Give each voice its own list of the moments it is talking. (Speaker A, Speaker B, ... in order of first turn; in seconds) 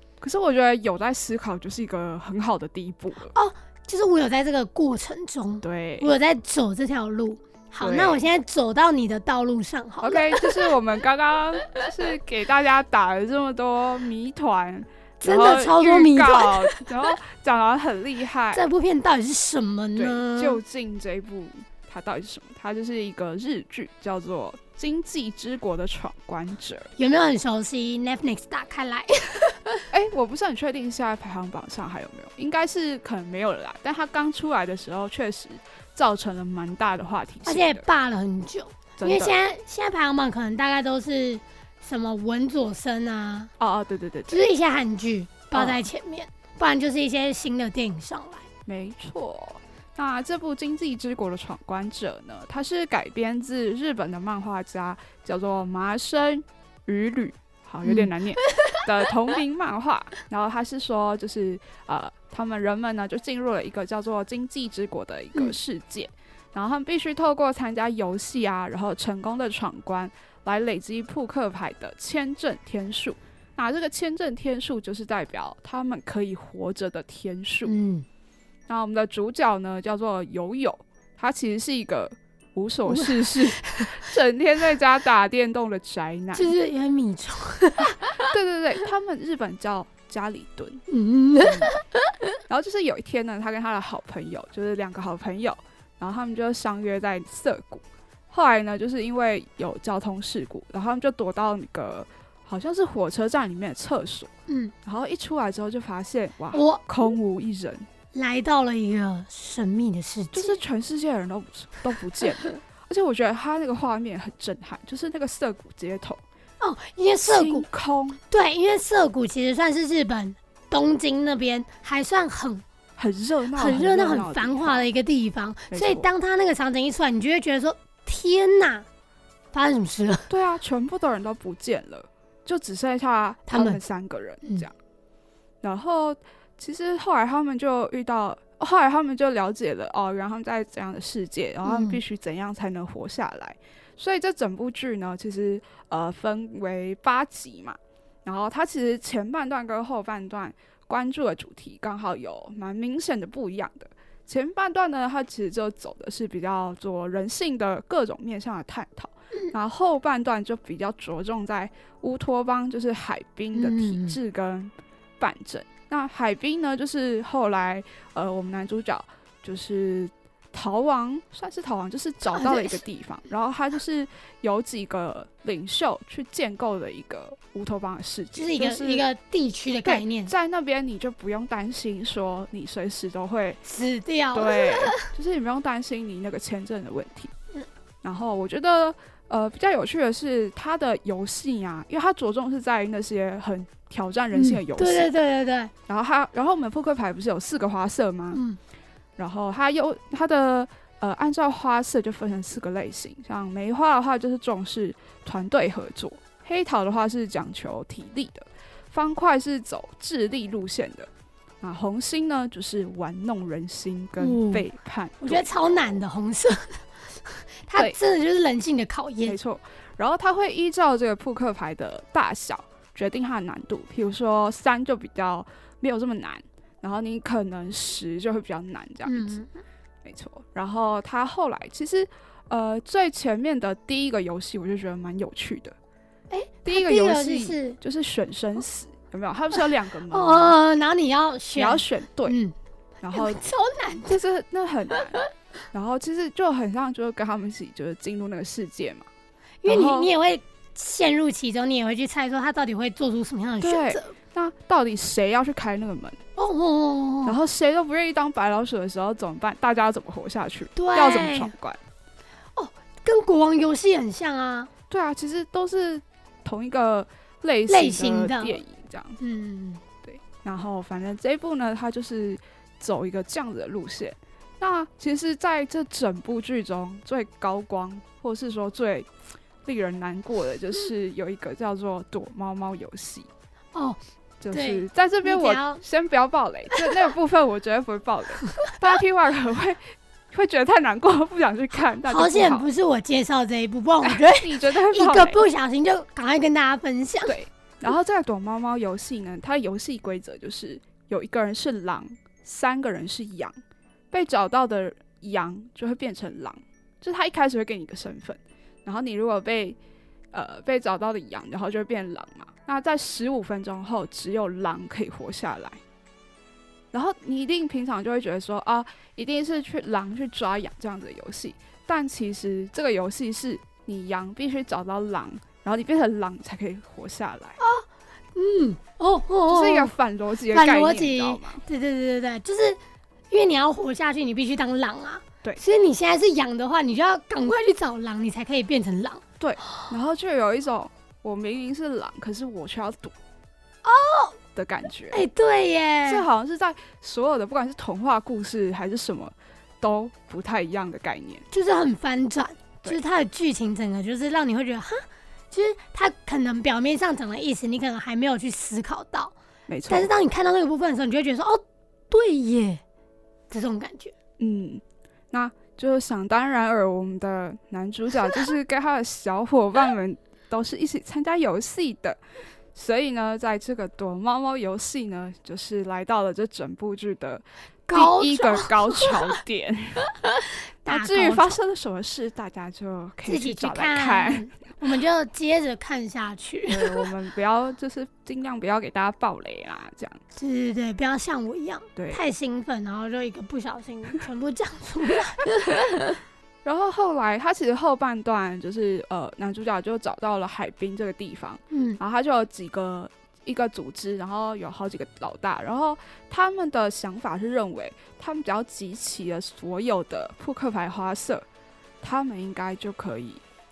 Speaker A: 0.2-3.3, 5.6-6.1, 7.8-8.2, 10.0-18.6, 20.0-26.9, 29.9-37.9, 39.0-39.4, 43.6-44.5, 45.5-45.9, 48.7-77.7, 78.7-86.5, 87.9-90.8, 91.4-91.7, 92.5-104.3, 104.8-107.9, 110.3-116.2, 117.2-118.2, 123.0-124.9, 125.7-126.1, 130.3-134.7, 135.6-179.1, 179.8-183.6, 184.3-187.3, 188.0-195.1, 195.9-198.4, 199.2-211.1, 211.6-216.0, 219.3-229.4, 230.0-235.8, 236.7-240.6, 241.6-242.4, 243.0-243.4, 244.1-249.1, 249.7-250.1, 253.6-256.2, 257.2-261.8, 264.9-269.2, 270.0-279.1, 279.6-283.3, 284.4-292.7, 294.0-295.4, 297.3-303.6, 304.1-309.8, 310.3-315.8, 316.9-327.6, 329.5-331.6, 339.4-343.1, 344.6-345.2, 346.1-351.5, 359.7-360.1, 364.4-372.2, 372.8-380.1, 380.9-384.5, 386.7-390.2, 392.0-392.2, 396.6-411.5, 412.0-413.4
Speaker B: 3.3-10.7, 15.2-16.9, 18.5-20.6, 27.0-29.9, 37.5-43.5, 44.3-48.5, 57.9-58.8, 77.7-78.1, 82.9-84.0, 86.3-88.3, 90.9-92.1, 104.5-104.7, 106.5-106.9, 108.1-110.6, 116.6-117.7, 118.3-122.6, 123.6-128.9, 129.5-130.3, 133.5-133.8, 141.7-142.0, 163.5-164.2, 172.3-172.8, 178.3-180.3, 183.7-185.1, 194.3-195.7, 214.2-214.7, 215.2-219.4, 229.1-229.5, 236.3-237.8, 240.1-242.5, 243.1-244.2, 245.0-245.3, 249.6-254.1, 256.4-257.4, 260.8-261.5, 262.6-264.7, 267.7-268.6, 269.2-269.8, 283.7-284.0, 284.5-285.8, 292.1-297.4, 327.6-329.9, 330.5-332.8, 333.3-339.2, 343.8-344.4, 345.1-346.3, 351.5-359.3, 359.9-362.8, 363.5-364.1, 377.9-379.4, 380.1-381.6, 383.3-387.1, 390.4-396.1, 401.7-402.0